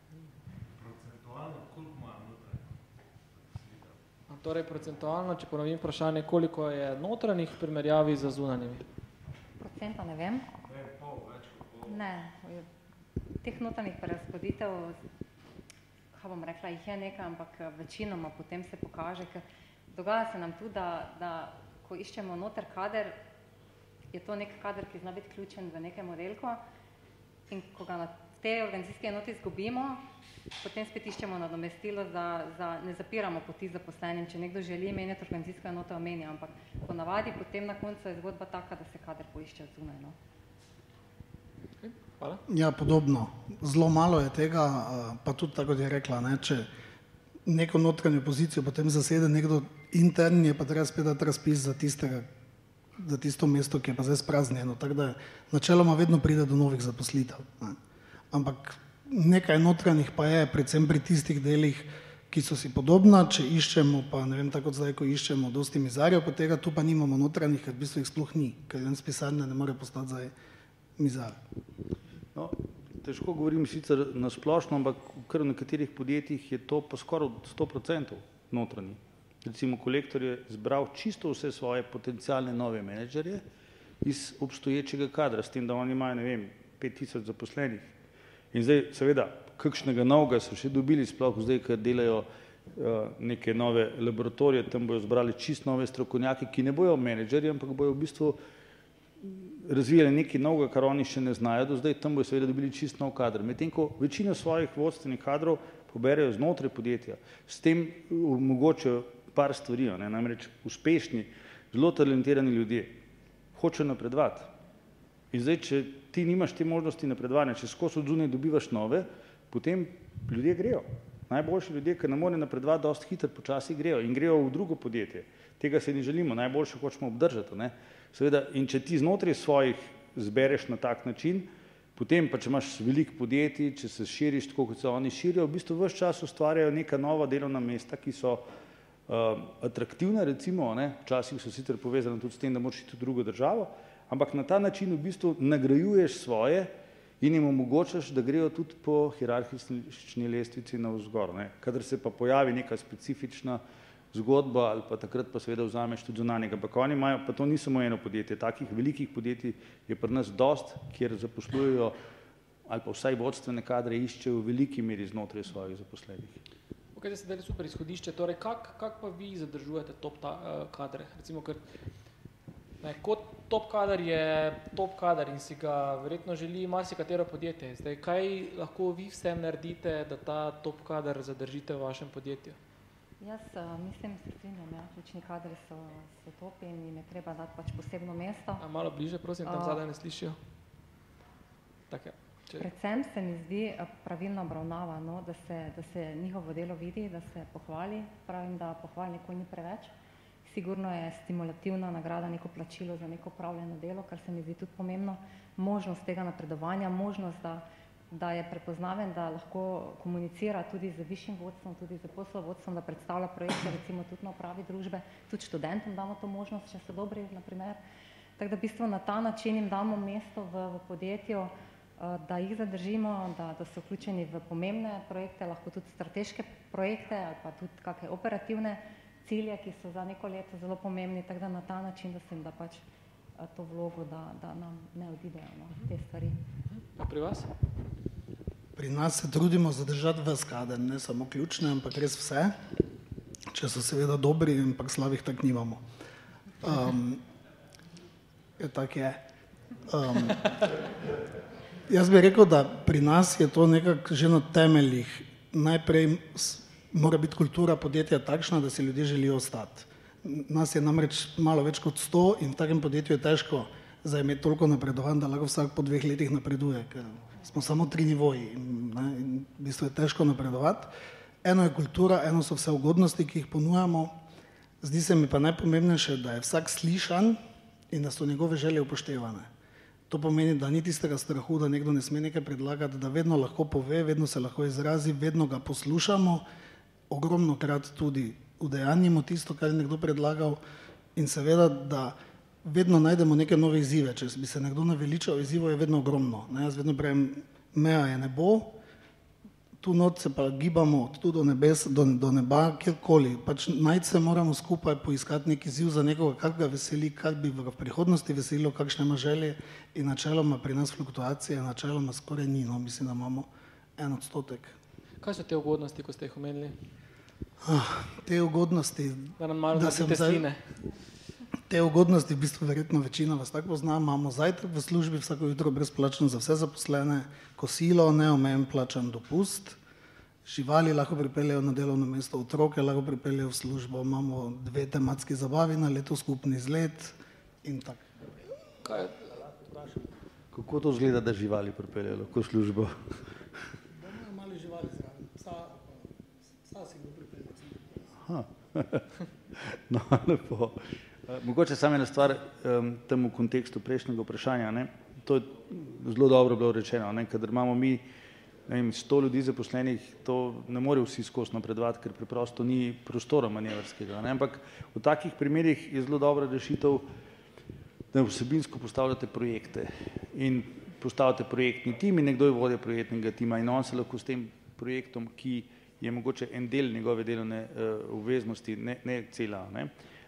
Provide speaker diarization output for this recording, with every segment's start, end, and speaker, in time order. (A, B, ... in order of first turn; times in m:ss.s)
0:01.3-0:02.3 A
0:04.3-0:08.8 B
0:09.6-0:10.5 C
0:10.7-0:11.7 A
0:11.8-0:12.7 C
0:13.4-0:15.0 C
0:16.1-0:23.2 C
0:24.1-0:26.6 C
0:27.5-0:30.0 C
0:30.6-0:40.2 C
0:41.8-0:42.4 B
0:42.5-0:46.7 D
0:47.4-0:52.3 D
0:53.0-0:57.8 D
0:58.3-1:10.3 D
1:11.0-1:11.4 D
1:12.4-1:23.4 A
1:24.0-1:27.9 A
1:28.5-1:38.4 A
1:39.2-1:53.0 A
1:53.6-1:54.5 A
1:55.3-2:18.4 A
2:19.1-2:33.6 A
2:34.1-2:42.0 A
2:42.7-2:46.4 A
2:47.0-2:51.6 B
2:52.8-3:02.6 B
3:03.2-3:08.6 C
3:08.6-3:10.4 B
3:09.5-3:09.8 C
3:11.9-3:12.7 B
3:12.6-3:19.9 C
3:20.4-3:37.8 C
3:38.4-3:52.8 C
3:53.4-3:56.4 C
3:56.7-3:57.5 B
3:58.8-4:02.6 D
4:03.5-4:05.8 D
4:06.6-4:07.2 D
4:08.6-4:09.2 D
4:09.9-4:10.7 D
4:11.9-4:30.9 D
4:31.4-4:34.2 D
4:34.8-4:37.4 D
4:37.9-4:39.5 D
4:40.1-4:46.4 D
4:47.1-4:50.6 D
4:51.2-4:58.8 D
4:59.8-5:14.8 D
5:15.2-5:16.8 B
5:17.6-5:20.5 D
5:19.4-5:20.6 B
5:21.7-5:29.8 D
5:30.4-5:38.2 D
5:38.8-5:39.2 B
5:39.3-5:43.2 A
5:44.0-5:48.0 D
5:48.2-5:58.0 A
5:58.7-6:07.1 A
6:08.1-6:19.9 A